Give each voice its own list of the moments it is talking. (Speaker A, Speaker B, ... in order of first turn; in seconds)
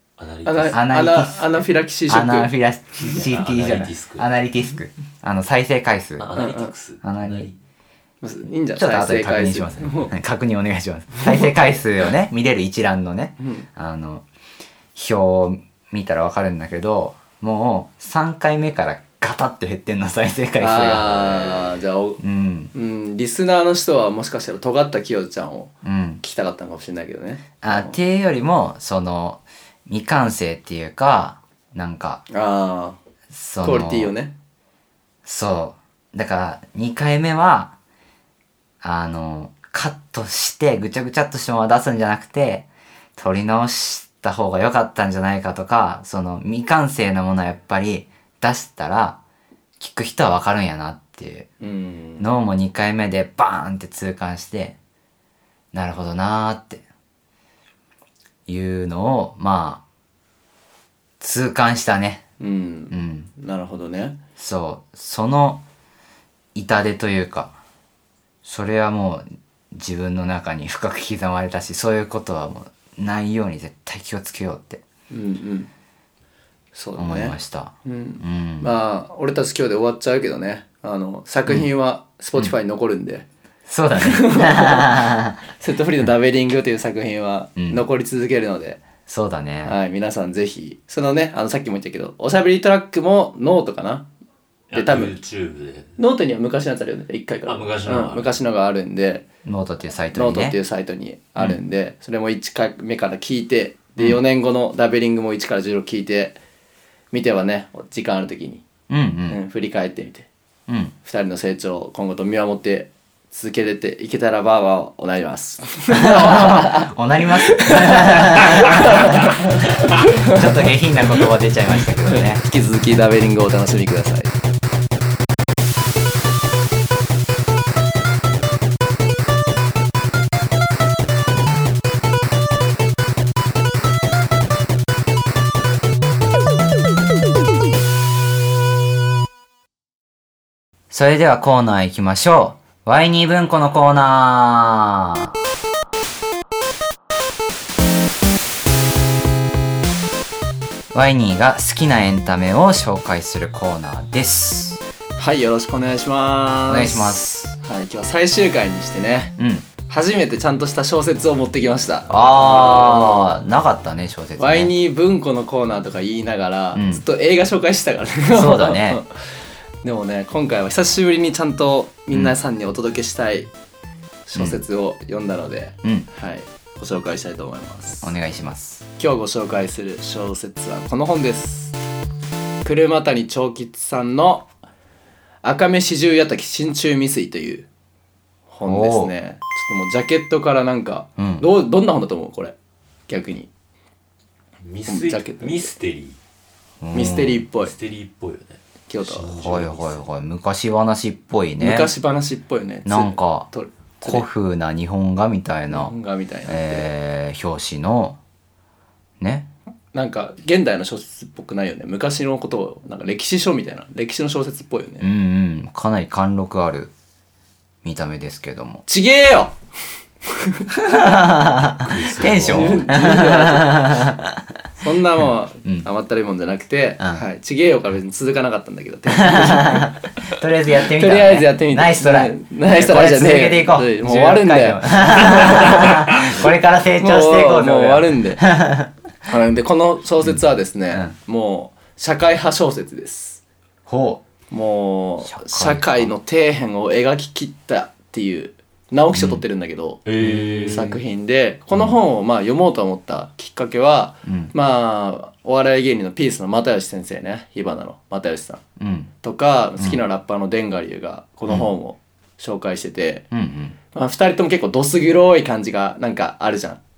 Speaker A: 0.2-0.8, 3.0-4.3, 6.2-7.5, 94.7-96.0, 97.5-98.3, 194.6-196.2, 197.0-200.0, 221.8-222.9, 250.1-251.0
Speaker B: 0.4-2.5, 6.3-6.7, 8.2-10.1, 13.4-13.7, 20.6-22.2, 22.7-28.0, 32.3-33.0, 33.6-34.3, 51.6-52.3, 62.4-64.2, 75.1-75.7, 76.7-83.2, 84.0-88.8, 89.6-94.0, 94.7-95.2, 96.0-99.2, 100.1-106.4, 107.1-108.6, 109.3-110.3, 111.0-121.2, 122.0-124.3, 155.2-163.3, 164.4-169.2, 169.8-173.5, 174.3-178.1, 179.0-181.7, 182.6-184.5, 185.4-187.7, 188.5-192.5, 193.1-193.5, 194.9-195.7, 196.9-197.7, 198.9-199.6, 201.6-204.2, 205.7-206.9, 209.9-215.1, 218.9-219.6, 220.3-221.1, 222.4-224.1, 224.8-230.3, 230.9-236.5, 237.0-238.5, 239.3-243.4, 244.5-258.6, 259.2-263.3, 263.9-266.8
Speaker C: 0.6-6.4, 7.0-7.5, 8.8-14.2, 14.9-22.7, 25.8-26.2, 27.6-32.2, 33.3-34.1, 35.2-37.7, 38.8-49.2, 49.8-51.5, 52.2-54.8, 55.7-56.8, 58.5-59.8, 61.2-62.2, 62.9-63.3, 64.4-65.6, 66.5-67.5, 68.4-74.8, 77.0-78.7, 83.7-85.4, 87.6-87.8, 89.1-89.8, 99.4-100.6, 108.9-109.4, 110.7-110.9, 115.9-122.4, 140.9-145.3, 150.9-154.8, 156.7-157.5, 159.4-159.7, 162.1-164.7, 166.7-167.0, 168.3-169.0, 174.3-174.6, 178.0-178.8, 188.6-189.1, 191.2-191.4, 196.8-197.4, 199.4-201.9, 202.8-203.5, 204.0-205.9, 206.5-208.2, 209.2-209.5, 215.0-216.9, 217.8-218.8, 220.9-224.5, 229.2-238.9, 243.9-244.2, 245.2-246.1, 249.1-249.4, 254.2-254.5, 258.8-259.1, 263.3-263.8